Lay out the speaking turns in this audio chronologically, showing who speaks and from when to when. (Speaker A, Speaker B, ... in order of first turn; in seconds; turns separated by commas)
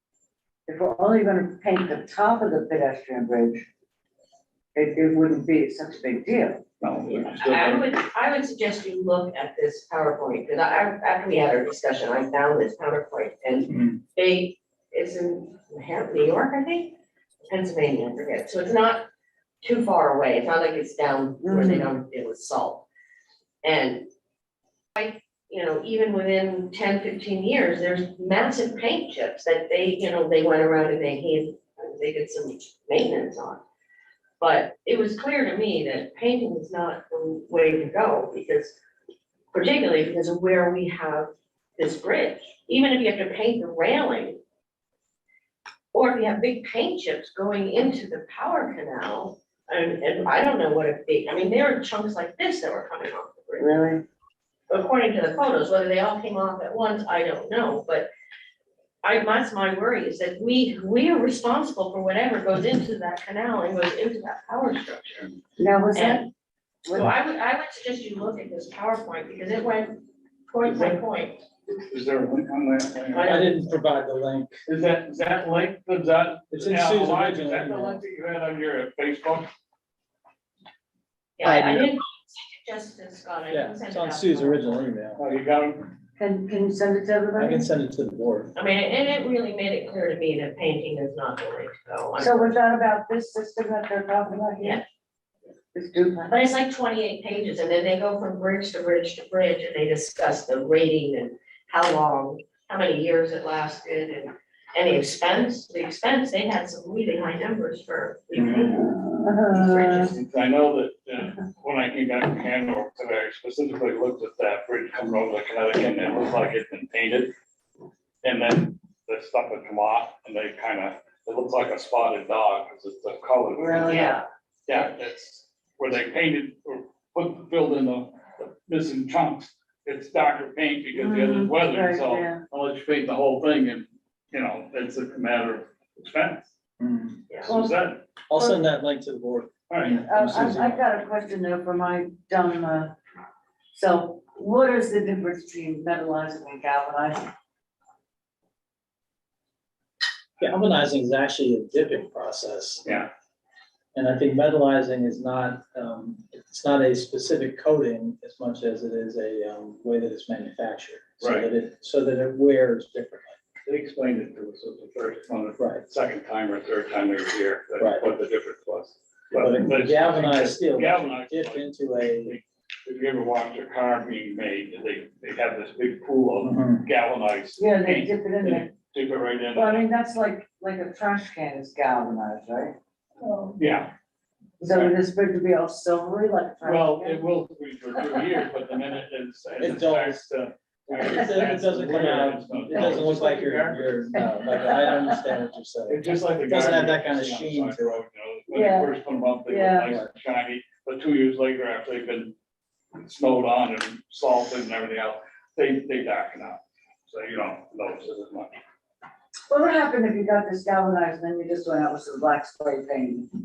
Speaker A: 0.7-3.7, Speaker A: 4.7-6.6, Speaker B: 6.8-7.9, Speaker C: 7.4-16.9, Speaker D: 13.7-14.0, Speaker C: 17.5-19.1, Speaker C: 19.6-22.8, Speaker A: 21.4-21.9, Speaker C: 23.6-24.1, Speaker C: 25.0-33.6, Speaker C: 34.4-38.8, Speaker C: 39.5-44.4, Speaker C: 45.9-53.7, Speaker A: 53.6-54.0, Speaker C: 54.7-58.1, Speaker C: 59.0-65.4, Speaker A: 65.6-66.2, Speaker C: 65.9-66.3, Speaker C: 66.9-71.4, Speaker B: 70.6-71.0, Speaker B: 71.8-73.6, Speaker C: 73.1-73.5, Speaker D: 73.2-74.5, Speaker B: 74.7-79.5, Speaker D: 76.5-78.0, Speaker C: 81.4-84.9, Speaker D: 81.5-81.8, Speaker D: 83.5-85.2, Speaker B: 85.2-85.9, Speaker A: 86.2-87.6, Speaker D: 87.4-88.5, Speaker C: 88.5-92.6, Speaker A: 92.2-94.8, Speaker A: 95.7-96.3, Speaker C: 96.3-108.9, Speaker A: 108.7-110.1, Speaker C: 109.5-110.2, Speaker B: 110.1-117.3, Speaker B: 118.2-124.1, Speaker A: 123.5-124.2, Speaker C: 123.9-124.2, Speaker B: 124.7-136.4, Speaker A: 130.9-132.4, Speaker D: 136.8-137.2, Speaker B: 137.3-138.0, Speaker A: 137.5-137.8, Speaker D: 138.3-140.8, Speaker B: 139.7-140.0, Speaker A: 139.9-142.9, Speaker A: 143.7-147.3, Speaker D: 150.4-152.8, Speaker B: 152.8-153.1, Speaker D: 153.9-163.4, Speaker B: 161.2-161.5, Speaker B: 163.7-179.9, Speaker D: 165.6-165.8, Speaker D: 169.3-172.3, Speaker D: 176.4-176.8, Speaker A: 177.6-178.7, Speaker A: 179.5-182.8, Speaker B: 183.6-183.9, Speaker B: 184.6-184.9, Speaker A: 184.6-187.2, Speaker B: 186.6-194.3, Speaker D: 189.6-190.2, Speaker D: 190.9-198.0, Speaker A: 192.7-193.0, Speaker A: 194.2-195.2, Speaker B: 195.9-202.3, Speaker A: 198.5-198.9, Speaker A: 199.5-199.9, Speaker B: 202.9-208.6, Speaker A: 209.5-213.3